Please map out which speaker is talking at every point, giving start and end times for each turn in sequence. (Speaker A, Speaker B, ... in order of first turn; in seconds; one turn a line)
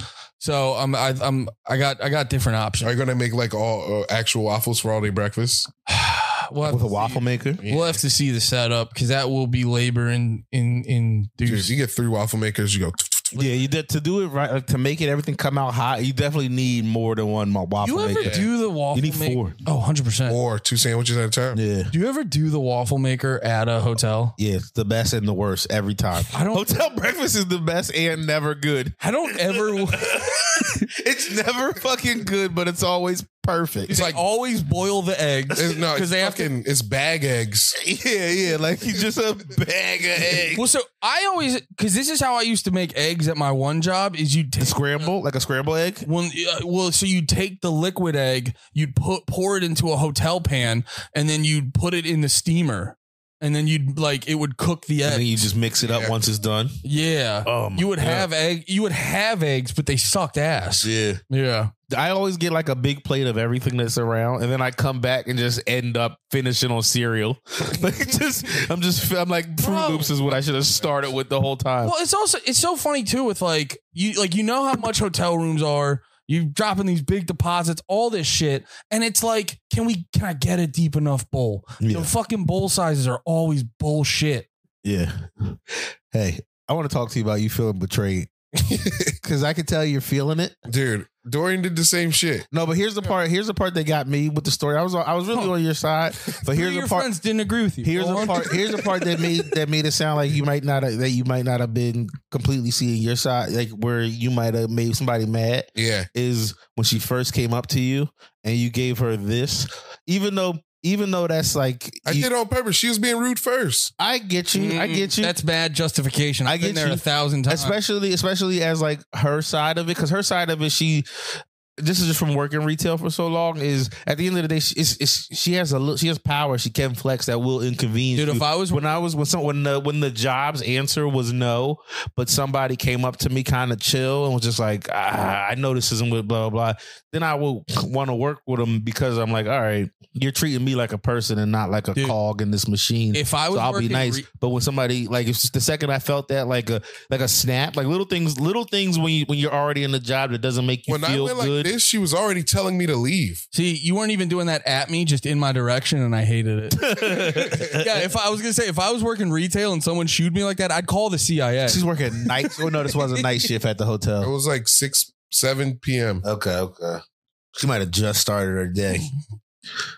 Speaker A: 0.4-2.9
Speaker B: 2.8-5.7
Speaker A: 5.9-11.7
Speaker C: 6.7-7.6
Speaker B: 7.6-8.0
Speaker B: 11.4-13.6
Speaker C: 13.3-19.6
Speaker A: 17.8-20.4
Speaker B: 18.2-18.5
Speaker B: 20.3-21.6
Speaker C: 21.5-21.9
Speaker A: 21.9-24.4
Speaker C: 24.4-34.0
Speaker A: 26.3-26.8
Speaker A: 29.0-30.1
Speaker A: 33.9-36.5
Speaker B: 33.9-34.2
Speaker B: 35.5-37.8
Speaker C: 37.8-40.7
Speaker A: 40.5-44.8
Speaker C: 44.6-46.1
Speaker A: 46.0-55.4
Speaker C: 55.0-56.8
Speaker B: 55.8-56.1
Speaker A: 56.8-61.7
Speaker C: 57.5-58.3
Speaker C: 60.8-61.2
Speaker C: 61.9-71.9
Speaker A: 69.6-70.1
Speaker A: 71.8-84.5
Speaker C: 81.8-82.1
Speaker C: 84.8-88.3
Speaker B: 88.6-89.2
Speaker C: 89.2-90.6
Speaker B: 90.7-92.5
Speaker C: 92.5-97.1
Speaker A: 96.5-98.8
Speaker C: 97.8-112.3
Speaker B: 105.8-106.1
Speaker B: 112.1-113.9
Speaker C: 114.0-115.3
Speaker A: 114.5-117.8
Speaker C: 116.5-121.1
Speaker C: 121.8-151.7
Speaker A: 128.2-128.8
Speaker A: 143.1-144.3
Speaker B: 150.9-153.4
Speaker A: 153.5-162.7
Speaker C: 156.8-158.1
Speaker C: 161.7-164.3
Speaker B: 164.2-166.2
Speaker C: 166.2-167.0
Speaker C: 167.6-169.1